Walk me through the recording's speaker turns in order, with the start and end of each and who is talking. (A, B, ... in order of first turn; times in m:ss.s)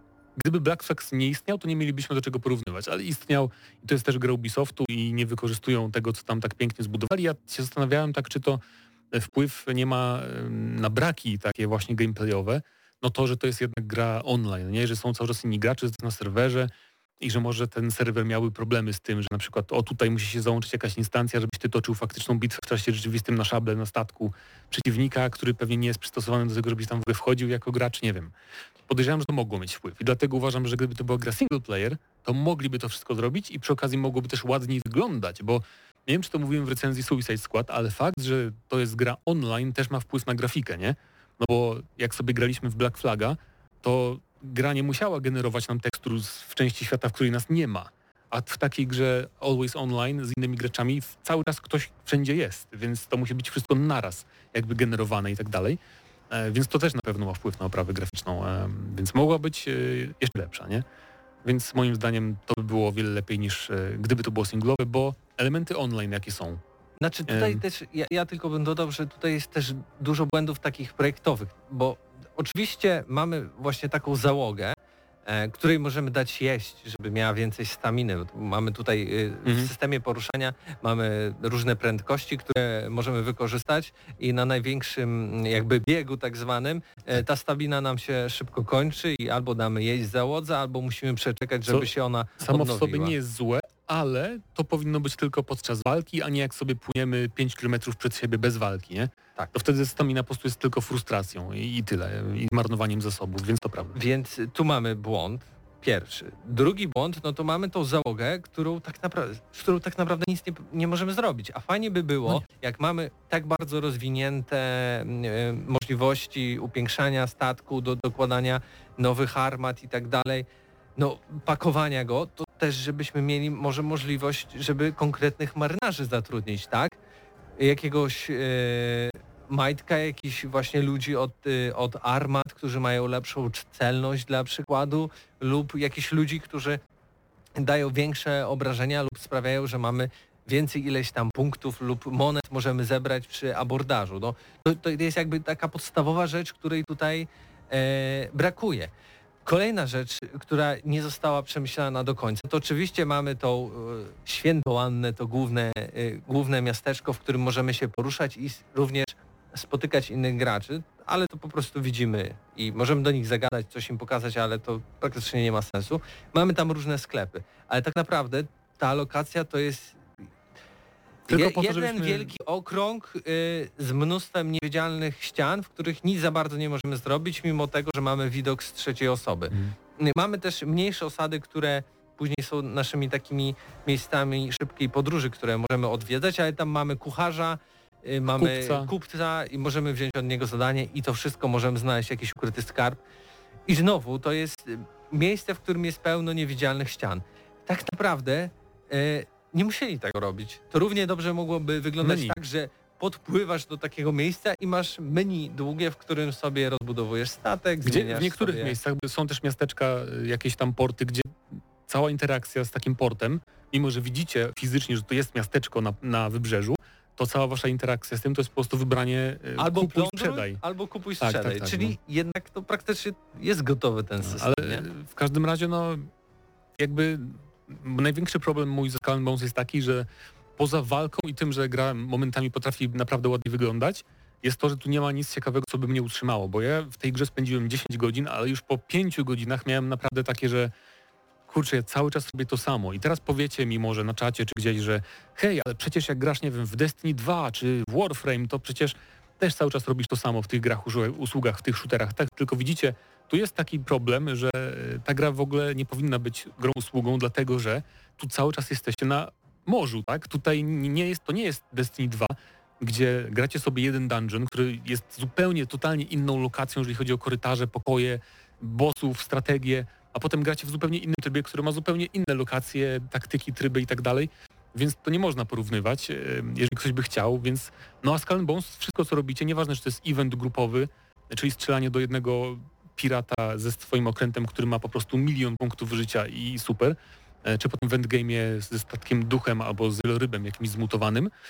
0:00.4-0:08.6 A
0:09.1-0:28.3 A
0:28.9-0:55.8 A
0:56.3-1:00.8 A
1:01.4-1:06.6 A
1:07.0-1:14.7 B
1:07.3-1:07.6 A
1:15.3-1:33.2 B
1:19.4-1:19.7 A
1:32.4-1:44.0 A
1:43.9-2:07.0 B
2:07.6-2:16.8 B
2:17.6-2:28.9 B
2:29.4-2:50.0 B
2:51.3-2:52.3 A
2:51.3-3:13.0 B
2:59.5-2:59.8 A
3:08.3-3:08.9 A
3:13.7-3:28.8 B
3:22.0-3:22.3 A
3:27.8-3:40.6 A
3:39.6-3:44.8 B
3:41.2-3:41.9 A
3:44.2-3:46.1 A
3:46.8-4:00.7 A
4:01.5-4:51.3 A